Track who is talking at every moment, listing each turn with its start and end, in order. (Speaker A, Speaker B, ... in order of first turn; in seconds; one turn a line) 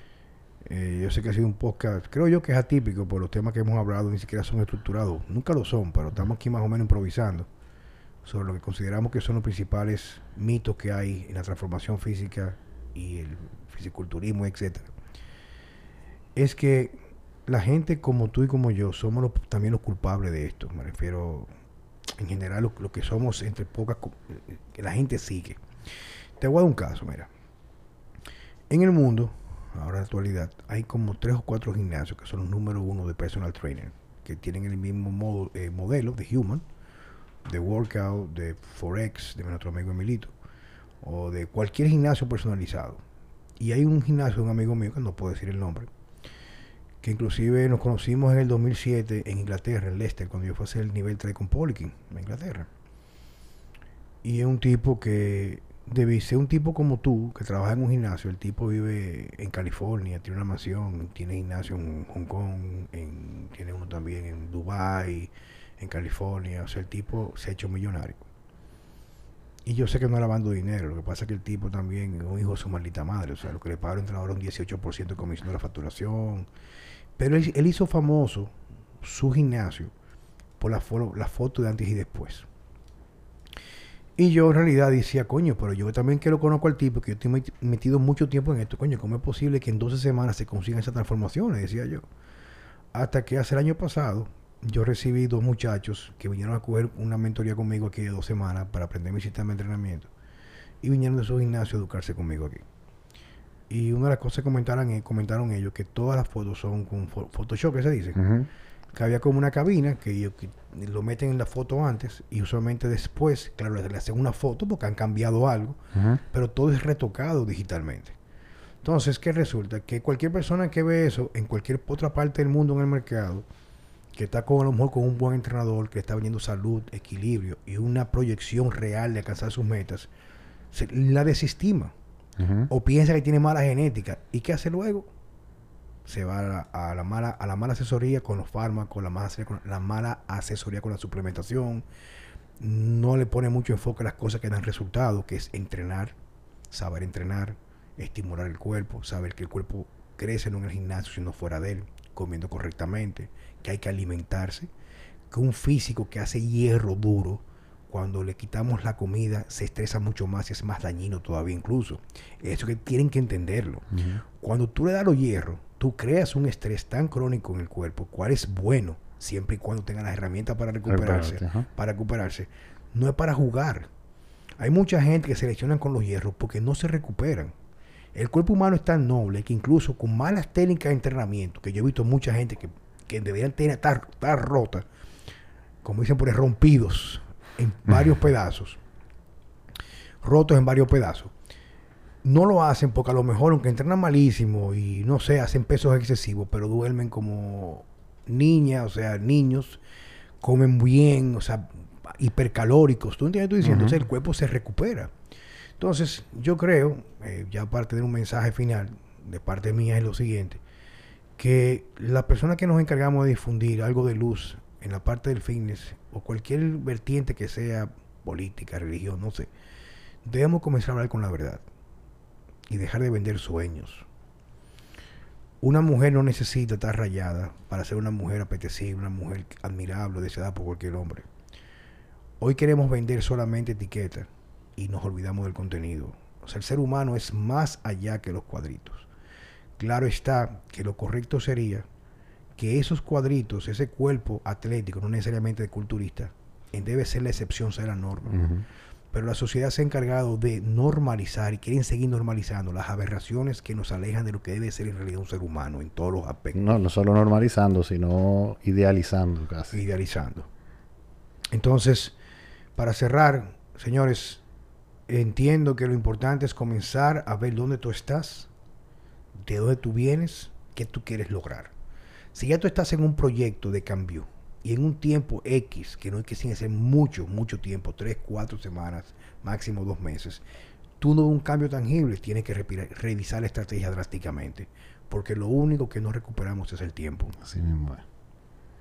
Speaker A: 0.7-7.5
Speaker A: 8.2-14.9
Speaker A: 16.4-16.9
Speaker A: 17.5-21.5
Speaker A: 22.2-25.6
Speaker A: 26.4-27.3
Speaker A: 28.7-36.6
Speaker A: 37.4-40.3
Speaker A: 41.0-43.0
Speaker A: 43.6-45.9
Speaker A: 47.0-52.7
Speaker A: 54.2-68.2
Speaker A: 69.7-76.5
Speaker A: 77.2-79.9
Speaker A: 80.6-82.5
Speaker A: 84.2-92.0
Speaker A: 92.9-100.1
Speaker A: 100.8-102.6
Speaker A: 103.7-108.2
Speaker B: 108.2-108.5
Speaker A: 108.9-115.8
Speaker B: 115.9-116.2
Speaker A: 116.3-118.1
Speaker A: 118.8-123.4
Speaker A: 124.1-130.1
Speaker A: 130.7-131.9
Speaker B: 132.4-132.7
Speaker A: 132.7-135.1
Speaker A: 136.1-141.8
Speaker A: 142.6-146.1
Speaker A: 146.7-154.7
Speaker A: 155.3-163.9
Speaker B: 163.9-164.2
Speaker A: 164.4-173.9
Speaker B: 170.9-171.7
Speaker A: 174.6-177.5
Speaker A: 178.1-184.8
Speaker A: 185.8-188.8
Speaker A: 190.2-191.3
Speaker A: 192.2-199.8
Speaker A: 200.4-205.1
Speaker B: 203.6-204.0
Speaker A: 205.8-210.6
Speaker A: 211.4-219.5
Speaker A: 220.2-221.6
Speaker A: 222.7-224.1
Speaker A: 225.6-231.3
Speaker A: 232.4-239.1
Speaker A: 239.8-241.8
Speaker A: 242.6-248.4
Speaker B: 248.3-248.6
Speaker A: 249.1-256.6
Speaker B: 256.5-259.8
Speaker A: 259.7-260.5
Speaker A: 261.5-262.1
Speaker A: 262.8-264.4
Speaker A: 265.1-268.5
Speaker A: 269.4-271.7
Speaker A: 272.3-280.4
Speaker A: 281.0-287.4
Speaker B: 287.4-288.0